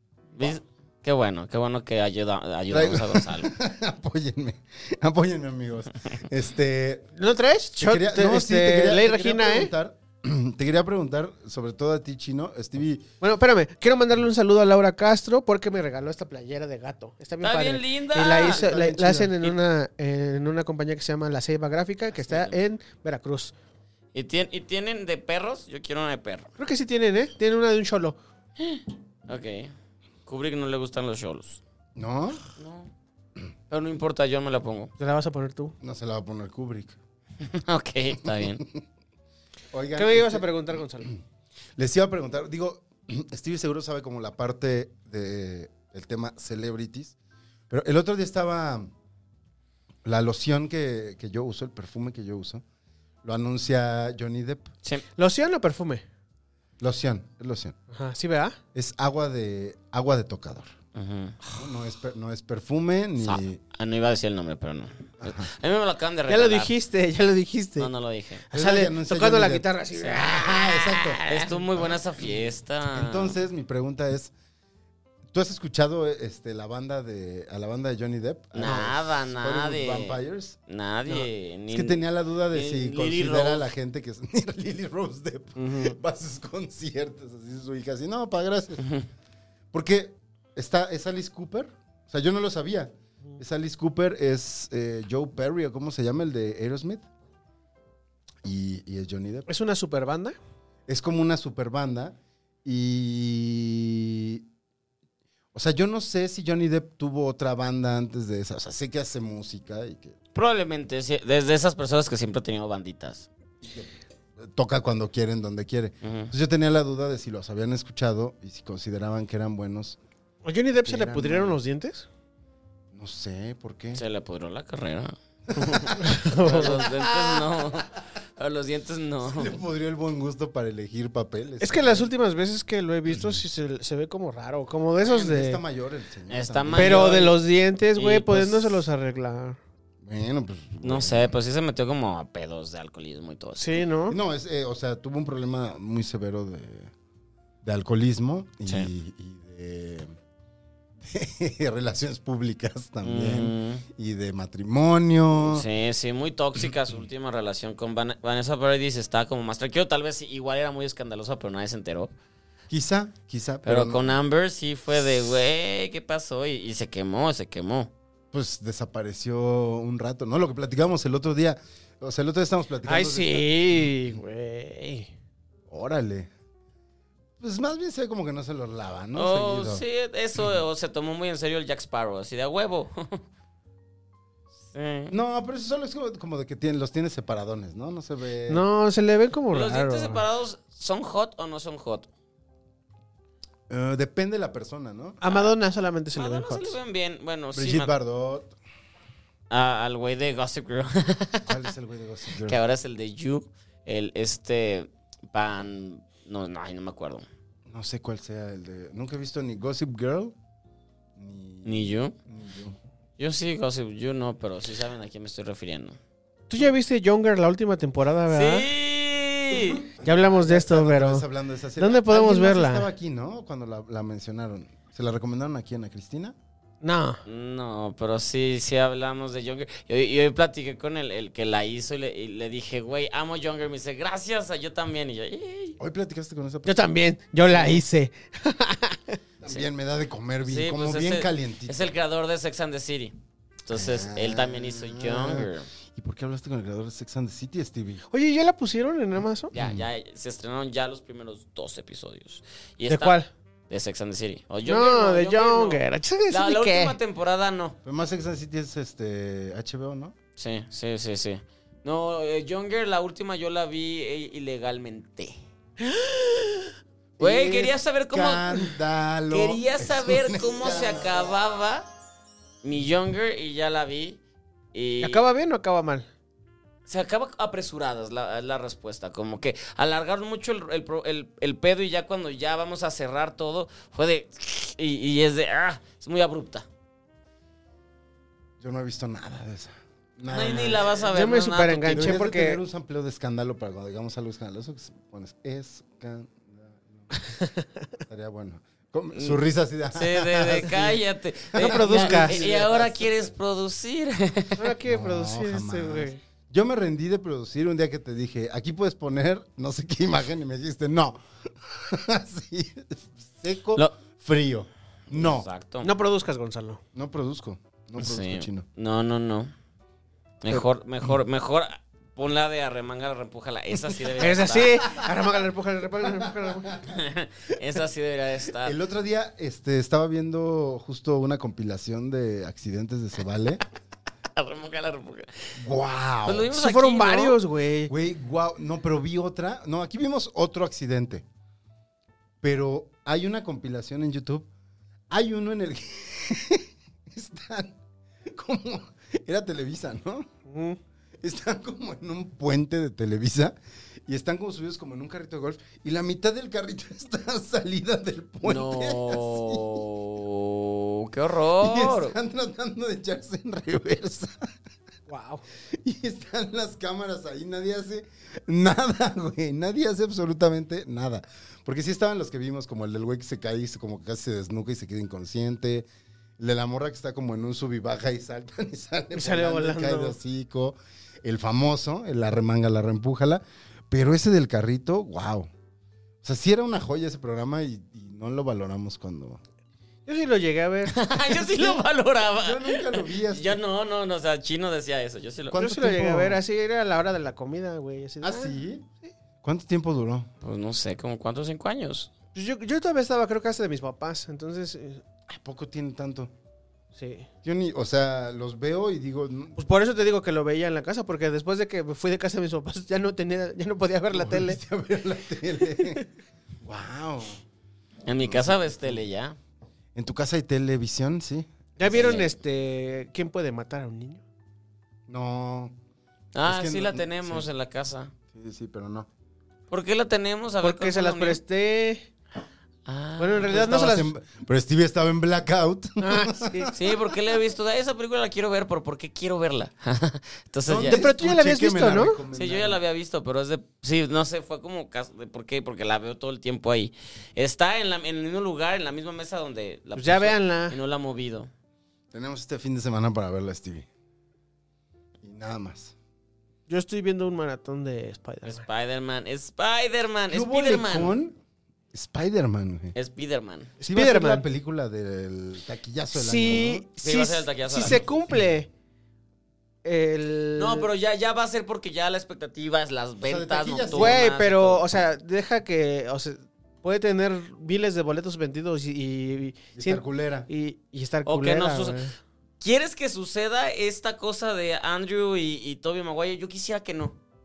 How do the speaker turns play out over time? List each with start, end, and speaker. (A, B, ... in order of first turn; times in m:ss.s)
0:00.4-0:03.5 A
0:02.7-0:07.1 B
0:07.2-0:09.7 C
0:07.8-0:13.0 B
0:13.2-0:23.5 C
0:17.4-0:18.6 A
0:18.2-0:19.4 B
0:22.2-0:22.6 A
0:24.1-0:26.5 A
0:26.6-0:28.2 C
0:28.6-0:29.7 A
0:30.2-0:31.6 A
0:32.0-0:32.4 B
0:32.6-0:32.9 A
0:33.7-0:34.9 A
0:35.0-0:35.7 C
0:35.8-0:37.0 B
0:37.4-0:38.6 A
0:38.2-0:38.8 B
0:39.7-0:40.5 B
0:39.9-0:41.1 C
0:41.8-0:47.1 B
0:47.7-0:48.9 B
0:50.0-0:52.6 B
0:53.2-0:54.7 B
0:55.2-0:56.0 C
0:56.8-0:57.8 B
0:57.9-0:58.6 C
0:58.7-1:00.7 B
1:00.9-1:01.4 A
1:01.6-1:03.6 B
1:03.2-1:06.7 A
1:05.2-1:05.5 B
1:06.3-1:07.9 C
1:07.8-1:08.4 A
1:08.5-1:10.4 C
1:08.5-1:11.2 B
1:10.0-1:13.4 A
1:12.9-1:14.3 B
1:15.3-1:20.6 B
1:18.5-1:20.2 A
1:20.7-1:23.7 A
1:21.7-1:28.8 B
1:25.6-1:26.0 C
1:28.8-1:29.0 A
1:29.7-1:37.0 B
1:38.4-1:39.5 B
1:39.5-1:40.4 C
1:40.9-1:44.4 B
1:45.5-1:50.2 B
1:50.3-1:53.3 A
1:53.6-2:00.0 B
1:56.0-1:56.3 A
2:00.4-2:02.1 C
2:00.8-2:01.6 B
2:02.9-2:04.0 B
2:03.9-2:09.6 A
2:05.5-2:07.6 B
2:05.8-2:06.8 C
2:09.2-2:12.1 B
2:11.6-2:15.6 C
2:15.0-2:17.3 B
2:16.3-2:17.4 A
2:16.7-2:19.6 C
2:17.9-2:18.8 A
2:20.0-2:21.3 B
2:20.8-2:23.8 A
2:23.6-2:24.2 C
2:24.1-2:26.9 B
2:27.6-2:30.1 B
2:31.0-2:35.6 B
2:33.0-2:33.8 A
2:35.4-2:42.1 A
2:42.7-2:44.2 B
2:43.6-2:47.9 A
2:48.3-2:53.5 B
2:52.8-2:55.1 C
2:55.7-2:56.3 B
2:57.4-2:59.8 B
2:59.1-3:03.2 A
3:04.7-3:05.1 A
3:05.1-3:08.6 B
3:08.5-3:10.2 C
3:09.5-3:12.1 A
3:13.7-3:15.2 B
3:15.2-3:16.8 C
3:16.1-3:17.9 A
3:17.5-3:18.5 B
3:19.5-3:21.6 A
3:21.4-3:22.6 B
3:22.4-3:27.2 A
3:27.7-3:30.3 B
3:31.2-3:32.8 B
3:31.6-3:32.1 A
3:33.2-3:36.0 A
3:36.5-3:38.7 C
3:38.3-3:39.8 A
3:40.0-3:41.2 C
3:40.0-3:46.3 B
3:41.8-3:42.9 C
3:46.8-3:47.2 C
3:47.2-3:55.8 A
3:55.8-3:56.8 B
3:56.6-3:59.2 C
3:59.4-4:01.9 B
4:00.4-4:05.7 A
4:03.7-4:08.0 B
4:08.1-4:09.5 C
4:09.5-4:13.2 A
4:09.5-4:09.8 B
4:12.9-4:13.3 C
4:13.7-4:17.8 A
4:14.6-4:17.0 C
4:17.8-4:20.1 B
4:20.4-4:25.4 A
4:27.2-4:31.3 B
4:27.2-4:28.7 A
4:29.3-4:31.9 A
4:32.6-4:34.2 A
4:34.7-4:35.2 A
4:35.0-4:36.1 C
4:36.9-4:46.6 A
4:48.6-4:50.9 B
4:50.2-4:52.2 A
4:51.1-4:52.6 C
4:51.9-4:57.1 B
4:58.1-5:03.2 B
4:59.9-5:04.7 A
5:01.6-5:02.4 C
5:04.6-5:06.2 C
5:04.8-5:15.5 B
5:15.1-5:15.9 A
5:15.8-5:16.8 C
5:16.9-5:18.6 B
5:18.0-5:19.5 A
5:20.4-5:24.8 A
5:24.2-5:26.7 C
5:26.2-5:27.0 B
5:26.8-5:28.8 A
5:28.6-5:33.6 B
5:34.4-5:35.5 A
5:35.6-5:36.5 B
5:36.2-5:37.4 A
5:36.5-5:37.9 C
5:37.9-5:41.2 B
5:42.4-5:44.5 B
5:45.1-5:50.3 B
5:50.5-5:50.8 C
5:51.2-5:59.8 B
5:58.4-6:02.1 A
6:01.6-6:04.5 B
6:05.1-6:05.4 C
6:05.7-6:15.9 B
6:16.4-6:25.5 B
6:19.1-6:20.2 C
6:26.2-6:29.4 B
6:30.0-6:31.0 C
6:30.9-6:35.6 A
6:32.4-6:33.6 B
6:35.5-6:36.4 B
6:35.5-6:38.5 C
6:38.2-6:38.9 B
6:39.4-6:40.3 B
6:40.4-6:42.1 A
6:42.3-6:45.0 C
6:45.3-6:46.3 B
6:47.0-6:47.3 C
6:47.4-6:49.6 B
6:49.6-6:54.6 C
6:54.1-6:56.1 B
6:56.6-6:57.4 B
6:58.0-6:59.4 A
6:58.2-6:59.0 B
6:59.9-7:02.2 B
7:01.8-7:04.2 C
7:01.9-7:02.3 A
7:05.1-7:05.8 B
7:06.3-7:08.1 A
7:06.4-7:07.5 B
7:08.3-7:09.1 B
7:09.7-7:11.4 A
7:10.6-7:12.1 C
7:12.8-7:13.5 A
7:13.2-7:14.1 C
7:13.4-7:16.9 B
7:16.0-7:16.7 C
7:16.7-7:21.0 A
7:20.6-7:22.8 B
7:20.8-7:22.2 C
7:22.3-7:31.5 A
7:29.9-7:30.8 C
7:32.1-7:33.9 B
7:35.2-7:35.9 B
7:36.7-7:38.6 C
7:38.4-7:41.1 A
7:40.3-7:41.4 B
7:41.9-7:42.9 B
7:42.9-7:43.7 A
7:43.8-7:44.4 C
7:43.8-7:46.9 B
7:46.1-7:48.7 C
7:47.0-7:48.0 A
7:49.8-7:50.9 C
7:50.6-7:54.9 A
7:53.2-7:54.2 B
7:53.9-8:02.1 C
7:59.7-8:00.5 B
8:01.2-8:02.0 A
8:02.6-8:07.2 A